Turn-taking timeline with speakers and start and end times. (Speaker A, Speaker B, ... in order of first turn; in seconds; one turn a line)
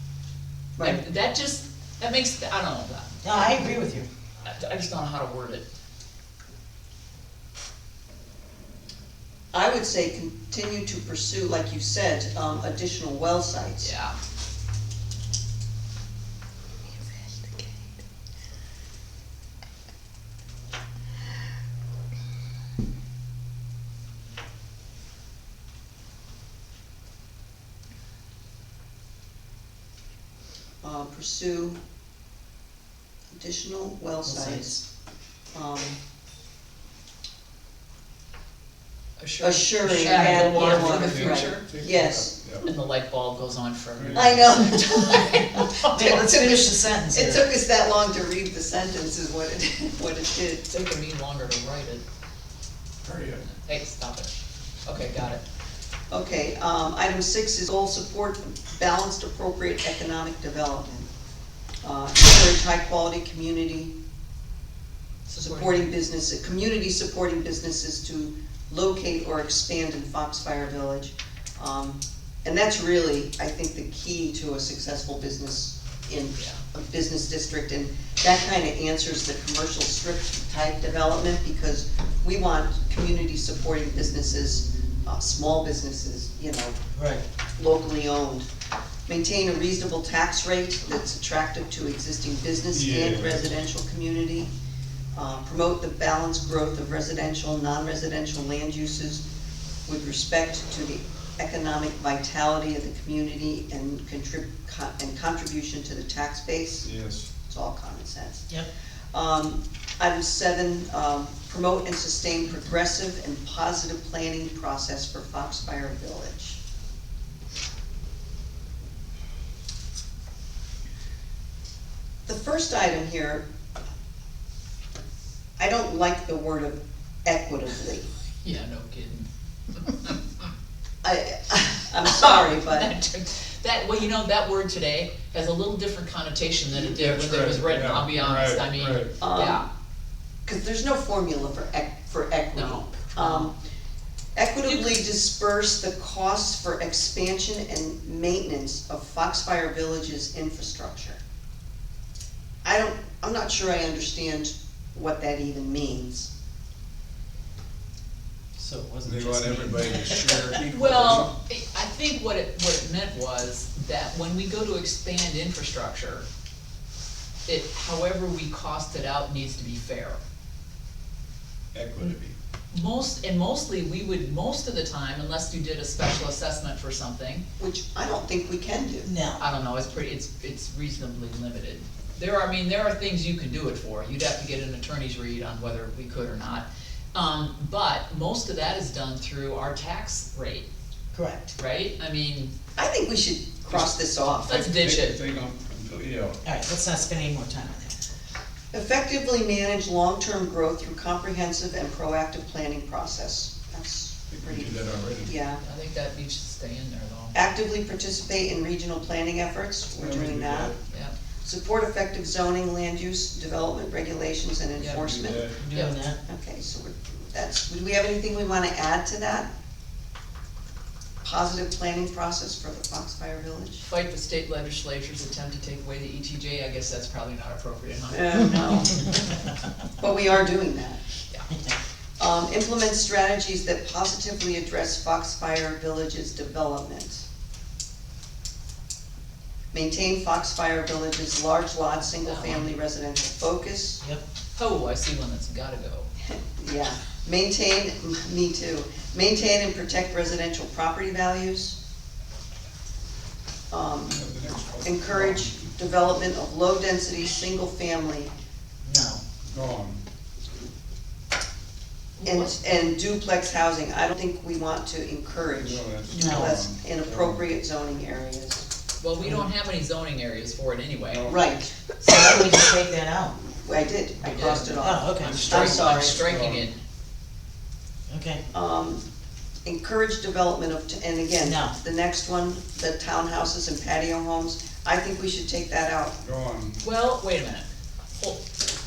Speaker A: 0.8-1.0
Speaker B: 0.8-3.1
Speaker C: 3.2-4.1
Speaker B: 4.4-5.7
Speaker A: 9.5-13.9
Speaker B: 13.8-14.2
Speaker A: 17.1-17.7
Speaker A: 30.8-31.8
Speaker A: 33.4-34.8
Speaker C: 34.2-34.7
Speaker A: 35.5-36.0
Speaker B: 39.2-41.7
Speaker A: 39.4-42.3
Speaker C: 40.0-41.0
Speaker D: 40.5-42.7
Speaker B: 42.6-45.9
Speaker D: 44.0-44.5
Speaker A: 44.1-50.6
Speaker C: 45.9-47.5
Speaker B: 50.7-52.0
Speaker D: 53.0-53.5
Speaker B: 53.5-54.3
Speaker B: 54.9-55.4
Speaker A: 56.1-61.1
Speaker A: 61.8-63.9
Speaker B: 65.3-65.9
Speaker A: 65.4-86.8
Speaker C: 86.9-87.2
Speaker A: 87.6-88.5
Speaker A: 89.1-94.5
Speaker D: 92.7-93.5
Speaker A: 95.2-99.2
Speaker A: 99.9-106.9
Speaker D: 106.8-107.3
Speaker A: 107.5-108.5
Speaker A: 109.1-116.6
Speaker A: 122.3-123.5
Speaker A: 125.6-128.1
Speaker B: 128.4-130.2
Speaker A: 131.0-132.9
Speaker B: 132.2-139.7
Speaker D: 136.7-139.1
Speaker A: 139.2-139.6
Speaker A: 140.5-143.5
Speaker B: 142.5-143.5
Speaker A: 144.3-151.2
Speaker B: 144.7-145.0
Speaker A: 152.6-156.3
Speaker C: 158.6-160.3
Speaker D: 159.1-161.3
Speaker B: 160.6-166.2
Speaker B: 167.5-170.2
Speaker D: 171.7-172.3
Speaker B: 172.7-177.4
Speaker A: 177.6-179.1
Speaker C: 179.1-179.4
Speaker B: 179.4-190.7
Speaker C: 191.1-191.5
Speaker B: 191.6-192.5
Speaker A: 192.8-194.6
Speaker B: 194.4-195.2
Speaker D: 194.4-196.4
Speaker C: 196.4-198.0
Speaker A: 198.7-205.6
Speaker D: 204.3-205.3
Speaker B: 205.6-207.4
Speaker A: 207.3-210.7
Speaker D: 210.0-210.8
Speaker B: 210.9-211.1
Speaker A: 211.4-215.5
Speaker B: 214.8-215.1
Speaker D: 214.8-215.6
Speaker C: 215.6-216.2
Speaker B: 215.7-216.0
Speaker A: 216.3-219.5
Speaker A: 221.2-223.8
Speaker B: 223.9-228.5
Speaker A: 228.1-229.1
Speaker A: 230.0-231.0
Speaker A: 232.2-237.2
Speaker A: 239.7-244.0
Speaker B: 242.2-242.7
Speaker B: 244.6-246.1
Speaker A: 246.3-251.8
Speaker A: 253.7-254.3
Speaker D: 254.1-255.8
Speaker A: 254.8-258.3
Speaker C: 258.9-259.2
Speaker D: 259.5-260.0
Speaker B: 262.2-262.7
Speaker A: 262.2-268.6
Speaker D: 265.6-267.4
Speaker C: 266.1-266.6
Speaker B: 269.0-271.4
Speaker A: 271.3-271.8
Speaker C: 272.0-273.4
Speaker A: 273.6-276.2
Speaker B: 274.2-276.8
Speaker C: 274.7-275.4
Speaker D: 275.3-276.7
Speaker C: 278.1-278.4
Speaker A: 278.5-279.0
Speaker A: 279.6-286.2
Speaker C: 281.4-281.8
Speaker D: 286.2-286.8
Speaker B: 286.8-288.4